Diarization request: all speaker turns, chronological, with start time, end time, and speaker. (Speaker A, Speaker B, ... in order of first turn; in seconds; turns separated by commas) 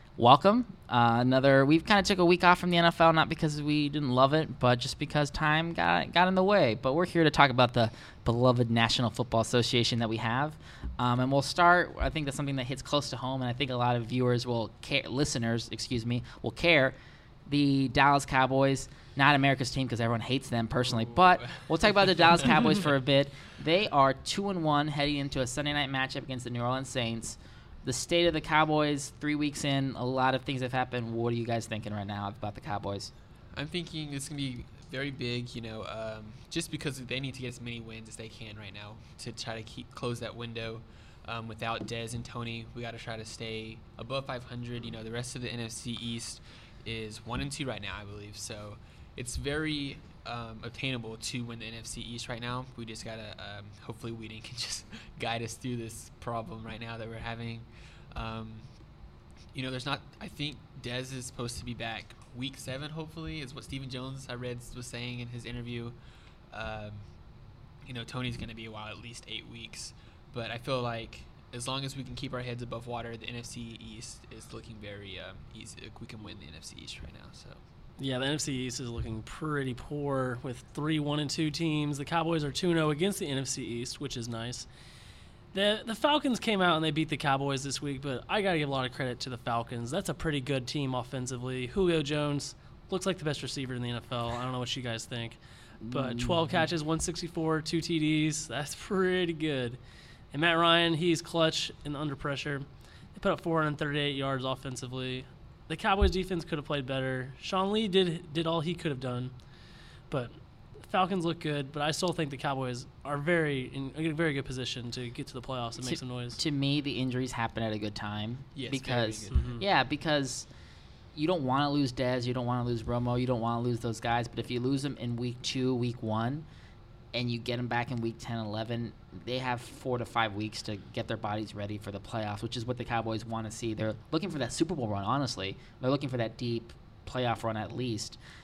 Speaker A: 0.2-33.1, Speaker B: 20.9-22.8, Speaker B: 33.5-58.8, Speaker B: 59.5-66.0, Speaker B: 66.5-67.0, Speaker B: 67.8-77.6, Speaker C: 78.0-84.7, Speaker C: 85.5-95.4, Speaker A: 95.8-96.7, Speaker C: 95.9-99.8, Speaker C: 100.3-102.6, Speaker C: 103.1-109.3, Speaker C: 110.1-116.4, Speaker A: 115.8-120.5, Speaker B: 118.5-119.6, Speaker C: 119.3-119.6, Speaker A: 121.1-126.5, Speaker A: 127.1-138.2